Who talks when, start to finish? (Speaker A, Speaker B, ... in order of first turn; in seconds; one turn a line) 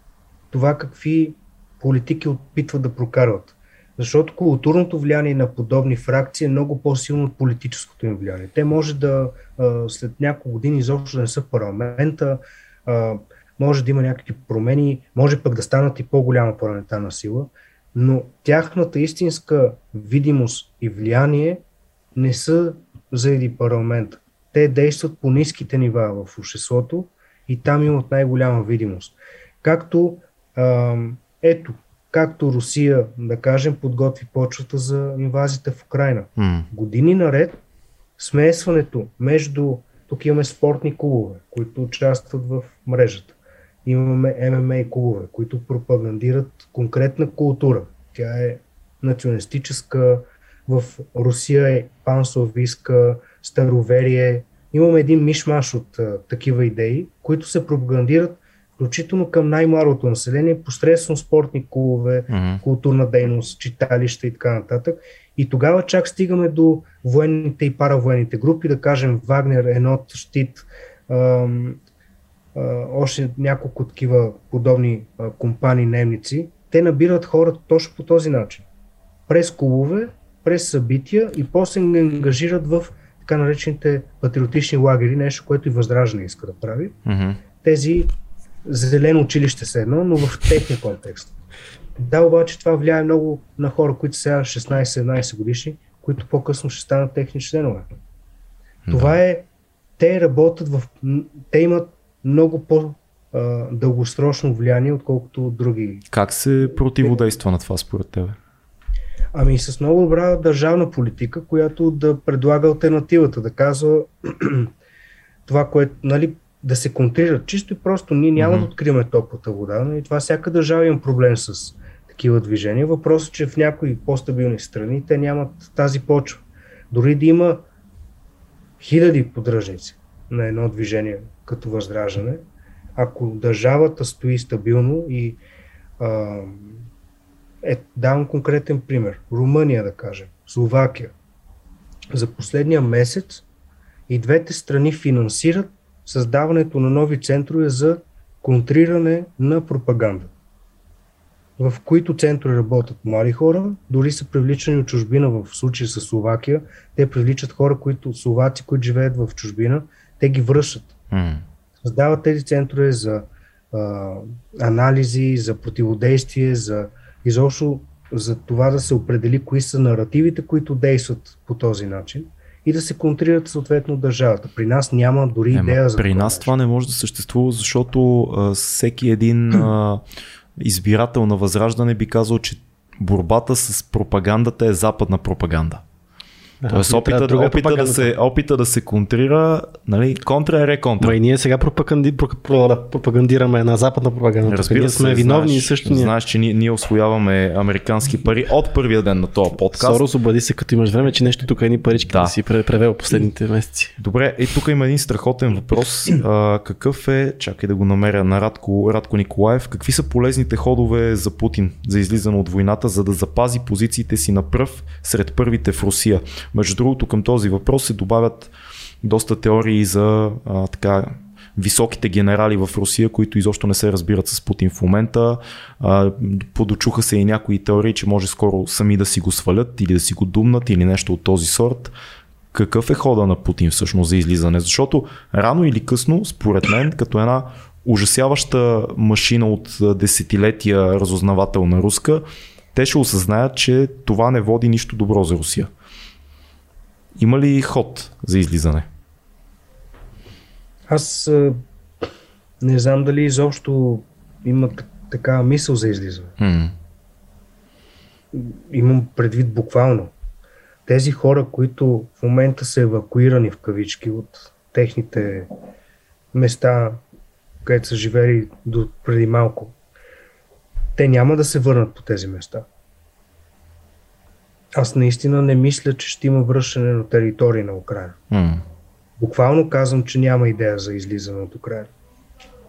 Speaker A: 0.5-21.6
Speaker A: 22.1-37.6
Speaker B: 36.4-36.7
Speaker A: 38.2-71.8
Speaker B: 62.3-62.6
Speaker A: 72.5-78.7
Speaker A: 79.3-87.0
Speaker B: 87.1-87.4
Speaker A: 87.6-88.1
Speaker A: 88.7-91.3
Speaker A: 92.0-97.9
Speaker B: 98.9-99.2
Speaker A: 98.9-99.5
Speaker A: 100.0-106.0
Speaker B: 106.1-108.4
Speaker A: 109.3-114.7
Speaker A: 115.5-127.6
Speaker B: 118.4-118.7
Speaker A: 128.8-132.4
Speaker A: 133.0-135.4
Speaker A: 136.0-136.9
Speaker A: 137.6-141.2
Speaker A: 142.1-143.4
Speaker A: 144.1-150.3
Speaker A: 151.6-160.9
Speaker B: 161.1-161.4
Speaker A: 161.8-176.5
Speaker B: 175.5-180.0
Speaker B: 180.6-185.8
Speaker C: 186.6-188.1
Speaker B: 186.7-191.2
Speaker C: 191.0-196.1
Speaker B: 194.5-200.0
Speaker C: 199.8-203.9
Speaker B: 202.1-202.3
Speaker B: 204.0-231.9
Speaker B: 232.5-242.2
Speaker B: 242.7-245.7
Speaker B: 247.2-248.9
Speaker A: 250.9-251.6
Speaker A: 252.6-256.4
Speaker B: 256.4-256.7
Speaker A: 258.3-260.1
Speaker A: 260.9-265.5
Speaker A: 266.3-267.0
Speaker A: 267.6-269.8
Speaker A: 271.0-272.7
Speaker A: 274.8-278.2
Speaker B: 278.3-278.6
Speaker A: 279.2-281.9